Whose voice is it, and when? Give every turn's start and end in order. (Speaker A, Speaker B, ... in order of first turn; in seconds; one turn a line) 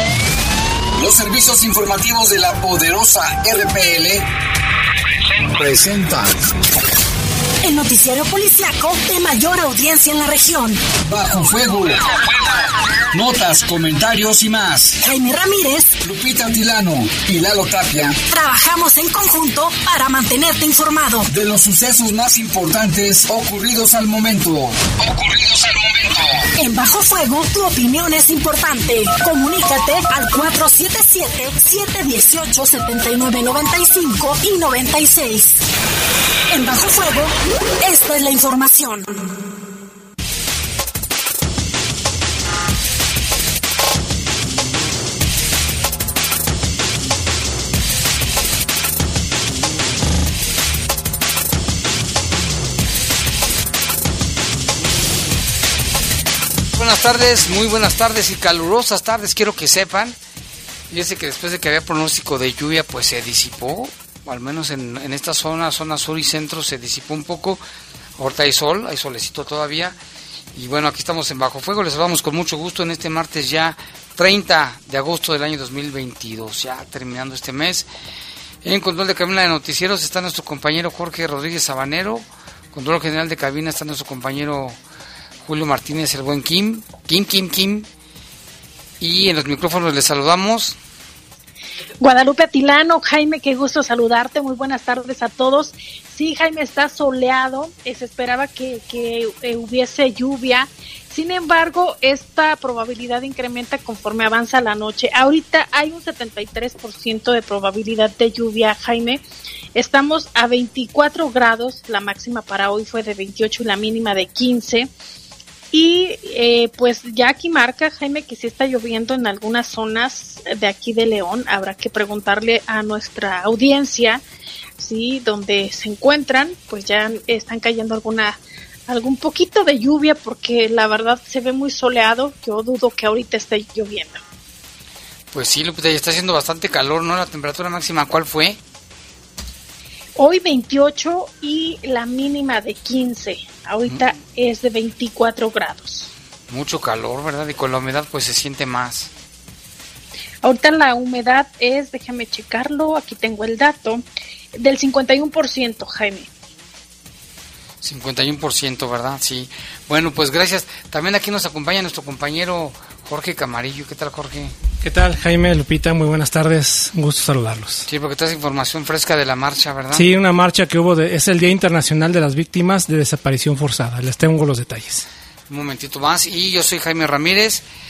Speaker A: 0.9-4.2
Speaker A: 5.3-6.3
Speaker B: 7.6-10.8
Speaker A: 11.0-12.1
Speaker A: 13.1-15.0
Speaker B: 15.0-15.9
Speaker A: 16.0-18.2
Speaker B: 18.3-21.3
Speaker A: 21.3-26.4
Speaker B: 26.6-35.6
Speaker B: 36.5-39.1
Speaker C: 56.7-60.2
Speaker C: 60.9-67.6
Speaker C: 68.2-70.0
Speaker C: 70.5-77.9
Speaker C: 78.6-84.8
Speaker C: 85.5-87.9
Speaker C: 89.0-90.8
Speaker D: 92.0-109.2
Speaker D: 109.8-114.9
Speaker D: 115.7-124.2
Speaker D: 124.8-134.2
Speaker C: 135.3-138.6
Speaker D: 140.2-146.1
Speaker C: 146.5-149.1
Speaker D: 150.4-154.1
Speaker D: 154.6-156.3
Speaker C: 157.8-164.5
Speaker E: 164.8-167.8
Speaker C: 167.9-170.1
Speaker E: 169.9-175.1
Speaker C: 175.5-177.6